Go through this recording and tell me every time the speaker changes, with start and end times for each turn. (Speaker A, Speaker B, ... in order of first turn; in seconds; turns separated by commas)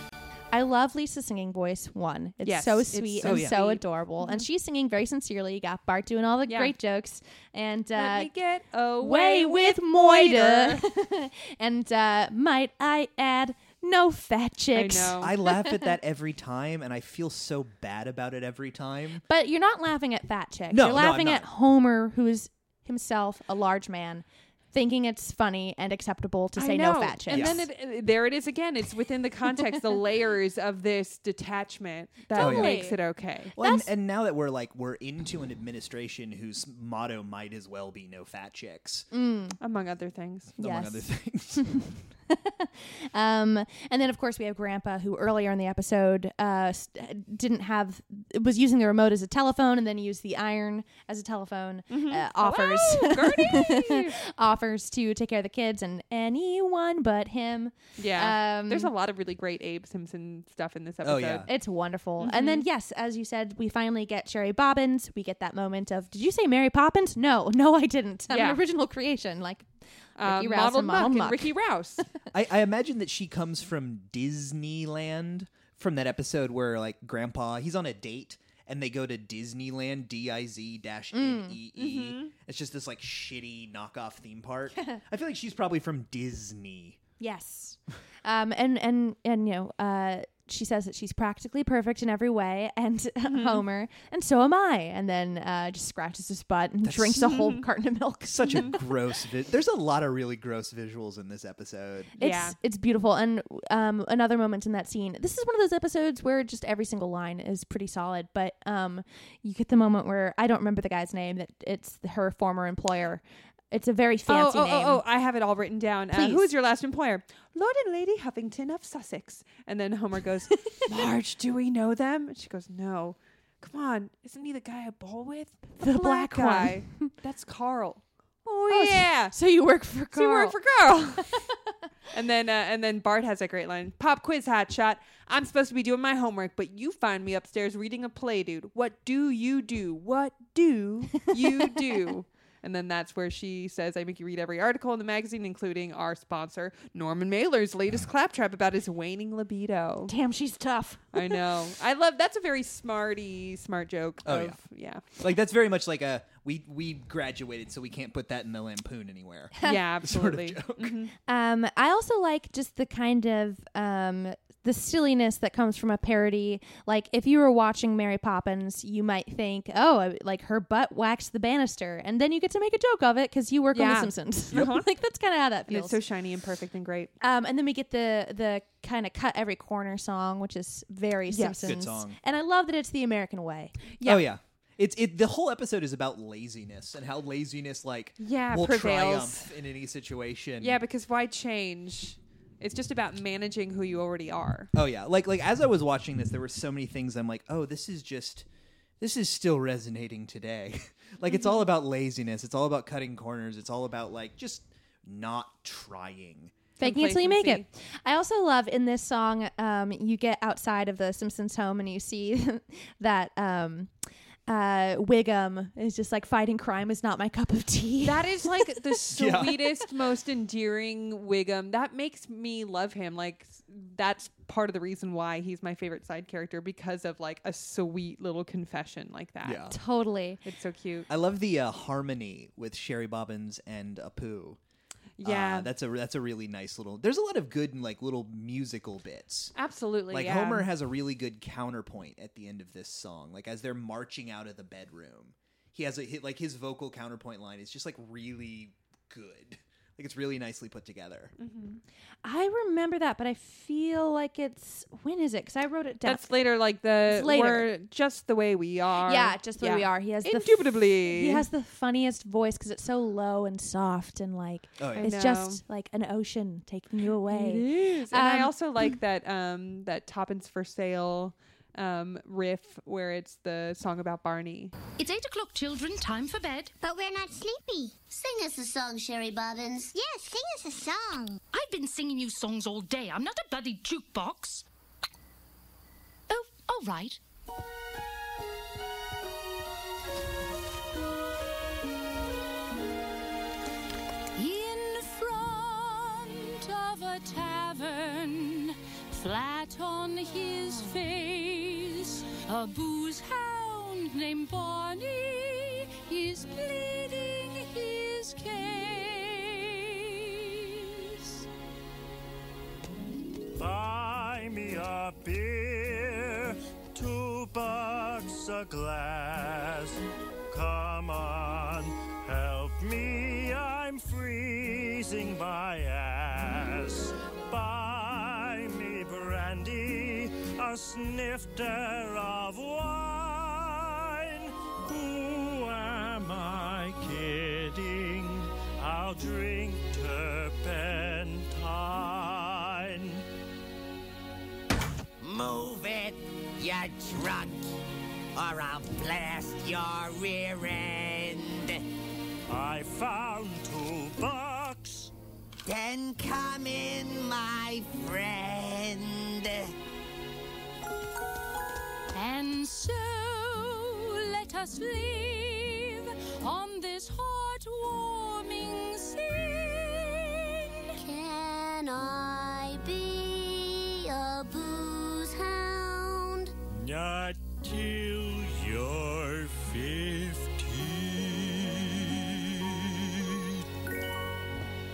Speaker A: 0.5-8.3, Speaker B: 2.4-4.5, Speaker C: 3.2-3.6, Speaker B: 6.5-6.7, Speaker B: 8.0-10.8, Speaker A: 9.0-15.2, Speaker B: 14.7-15.3, Speaker C: 15.2-19.2, Speaker A: 19.3-27.6, Speaker C: 20.7-21.5, Speaker B: 26.6-33.5, Speaker C: 27.3-27.7, Speaker A: 32.3-33.0, Speaker C: 32.4-32.9, Speaker C: 33.6-39.1, Speaker A: 33.6-33.9, Speaker A: 39.1-39.6, Speaker B: 39.6-40.5, Speaker C: 40.6-41.8, Speaker A: 40.6-41.0, Speaker A: 41.6-58.9, Speaker B: 51.9-54.2, Speaker B: 58.0-61.5, Speaker C: 61.0-61.5, Speaker A: 61.5-69.7, Speaker B: 62.2-62.7, Speaker B: 68.3-68.6, Speaker B: 70.2-72.0, Speaker A: 70.2-71.5, Speaker C: 72.3-87.0, Speaker A: 81.1-81.6, Speaker B: 81.8-82.3, Speaker A: 87.2-98.8, Speaker B: 93.3-93.6, Speaker C: 96.8-97.3, Speaker B: 97.2-97.6, Speaker C: 98.3-102.1, Speaker A: 102.2-115.0, Speaker B: 102.2-102.6, Speaker B: 114.3-129.3, Speaker A: 116.1-116.5, Speaker A: 125.8-127.1, Speaker A: 128.7-130.6, Speaker B: 130.1-131.4, Speaker B: 132.1-150.1, Speaker A: 150.1-151.4, Speaker B: 151.1-155.1, Speaker C: 154.2-154.6, Speaker C: 155.2-160.9, Speaker B: 159.6-161.1, Speaker A: 161.3-176.0, Speaker B: 173.7-174.9, Speaker B: 175.7-177.1, Speaker A: 177.2-183.8, Speaker B: 181.3-181.8, Speaker C: 181.6-182.2, Speaker B: 184.0-184.3, Speaker C: 184.0-190.8, Speaker B: 188.2-189.5, Speaker B: 190.6-194.7, Speaker C: 194.7-198.5, Speaker C: 199.0-206.5, Speaker B: 201.3-201.6, Speaker B: 206.8-207.7, Speaker A: 206.8-213.9, Speaker A: 214.5-218.7, Speaker B: 218.0-229.8, Speaker C: 219.0-219.7, Speaker C: 229.4-229.8, Speaker A: 229.7-230.4, Speaker B: 230.4-231.1, Speaker C: 231.1-234.6, Speaker B: 235.2-235.7, Speaker C: 235.2-239.5, Speaker B: 239.6-240.7, Speaker C: 240.1-251.3, Speaker B: 251.4-251.8, Speaker A: 252.2-256.3, Speaker B: 256.0-261.5, Speaker A: 257.1-257.7, Speaker A: 259.1-268.5, Speaker C: 264.8-265.1, Speaker B: 265.0-265.6, Speaker B: 267.3-274.7, Speaker D: 275.0-276.7, Speaker E: 276.8-281.4, Speaker D: 281.5-284.6, Speaker D: 286.3-287.2, Speaker D: 294.4-310.2, Speaker F: 313.6-343.2, Speaker G: 345.2-347.7, Speaker G: 348.4-351.9, Speaker F: 352.5-355.1, Speaker G: 355.7-359.7, Speaker D: 362.1-370.4, Speaker E: 371.0-376.5, Speaker F: 376.8-383.0